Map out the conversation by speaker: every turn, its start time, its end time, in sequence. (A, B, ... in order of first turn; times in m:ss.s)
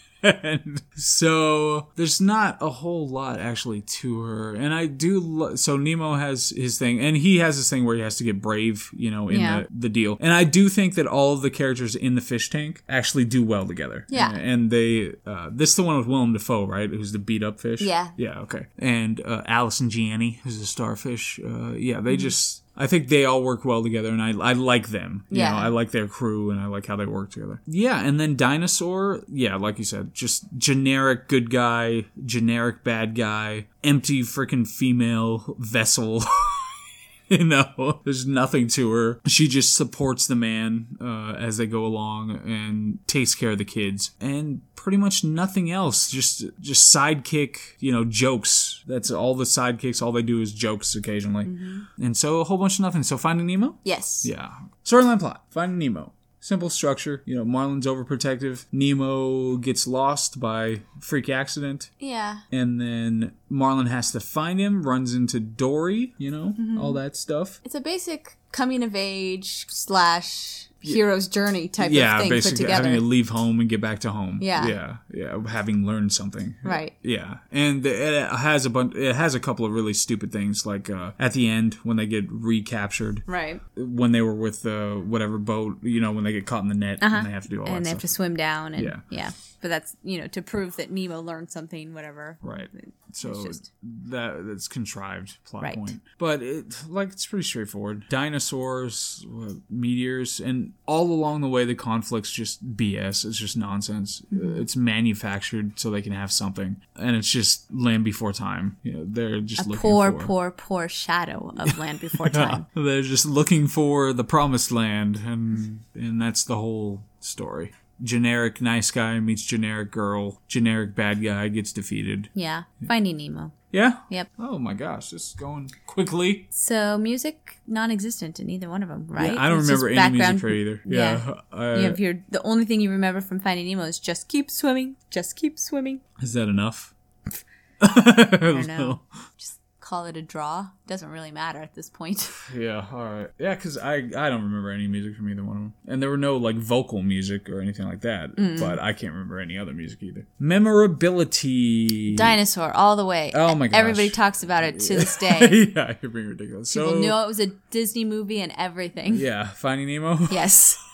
0:00.2-1:01.9 A
0:09.3-0:09.6 B
0:14.1-0:14.4 B
0:17.8-0:18.2 B
0:25.3-0:25.7 B
0:51.4-0:51.9 B
0:53.8-0:54.3 B
1:02.0-1:02.4 B
1:02.5-1:07.6 A
1:06.6-1:07.0 B
1:07.6-1:13.0 B
1:11.8-1:28.1 A
1:14.4-1:14.8 B
1:16.6-1:16.9 B
1:23.3-1:23.6 B
1:27.0-1:33.7 B
1:28.8-1:29.0 A
1:32.4-1:50.3 A
1:35.6-1:35.9 B
1:44.3-1:44.6 B
1:49.6-1:52.7 B
1:51.7-2:02.3 A
2:02.4-2:03.6 B
2:03.7-2:06.5 A
2:06.5-2:16.0 B
2:09.2-2:12.0 A
2:16.2-2:16.9 A
2:17.8-2:19.0 A
2:18.5-2:22.4 B
2:22.5-2:32.4 A
2:28.4-2:28.8 B
2:32.1-2:35.6 B
2:33.3-2:37.2 A
2:36.7-2:39.3 B
2:39.1-2:40.6 A
2:40.3-2:40.8 B